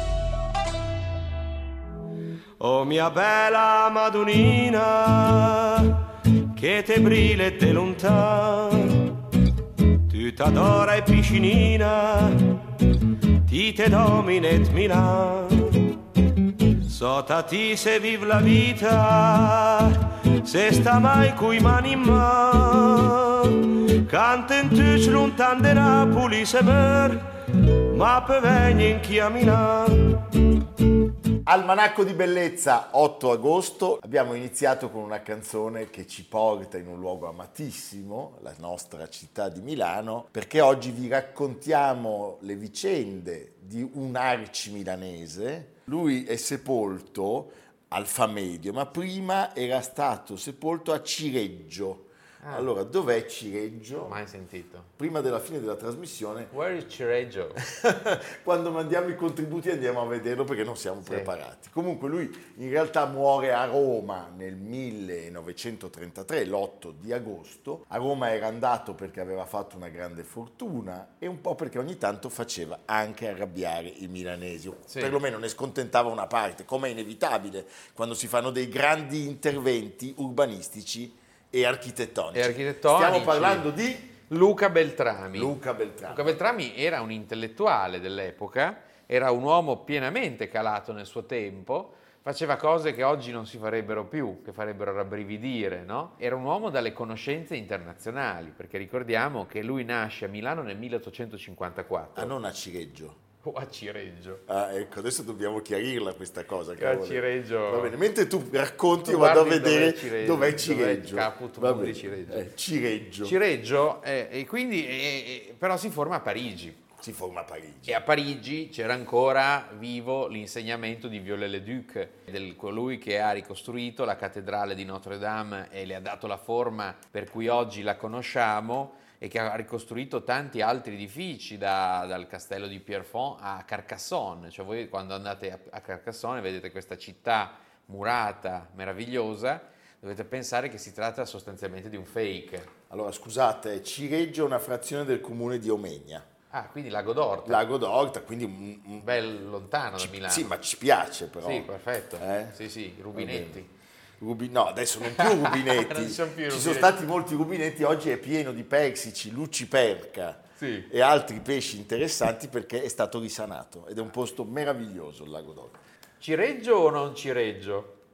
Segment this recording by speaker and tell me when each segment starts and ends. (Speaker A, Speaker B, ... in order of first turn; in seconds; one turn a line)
Speaker A: 2.6-9.2
Speaker A: 10.1-12.8
Speaker A: 13.5-15.9
Speaker A: 16.8-27.2
Speaker A: 27.9-30.3
Speaker B: 31.4-54.2
Speaker C: 52.4-52.7
Speaker C: 54.0-54.9
Speaker B: 55.0-56.5
Speaker C: 56.5-57.6
Speaker B: 57.6-84.1
Speaker C: 61.0-61.3
Speaker C: 74.9-75.2
Speaker C: 82.3-83.7
Speaker C: 84.3-85.5
Speaker B: 85.3-86.4
Speaker C: 86.1-102.3
Speaker B: 102.2-103.2
Speaker C: 103.4-104.4
Speaker B: 104.5-113.4
Speaker C: 106.8-108.0
Speaker C: 109.0-112.5
Speaker C: 113.2-116.9
Speaker B: 117.0-118.0
Speaker C: 117.9-142.7
Speaker B: 142.9-146.3
Speaker C: 146.5-147.6
Speaker B: 147.4-149.1
Speaker C: 149.0-150.5
Speaker B: 150.0-152.6
Speaker C: 151.4-153.7
Speaker B: 153.1-153.6
Speaker B: 154.2-165.8
Speaker C: 155.0-157.0
Speaker C: 160.6-160.9
Speaker C: 166.2-168.0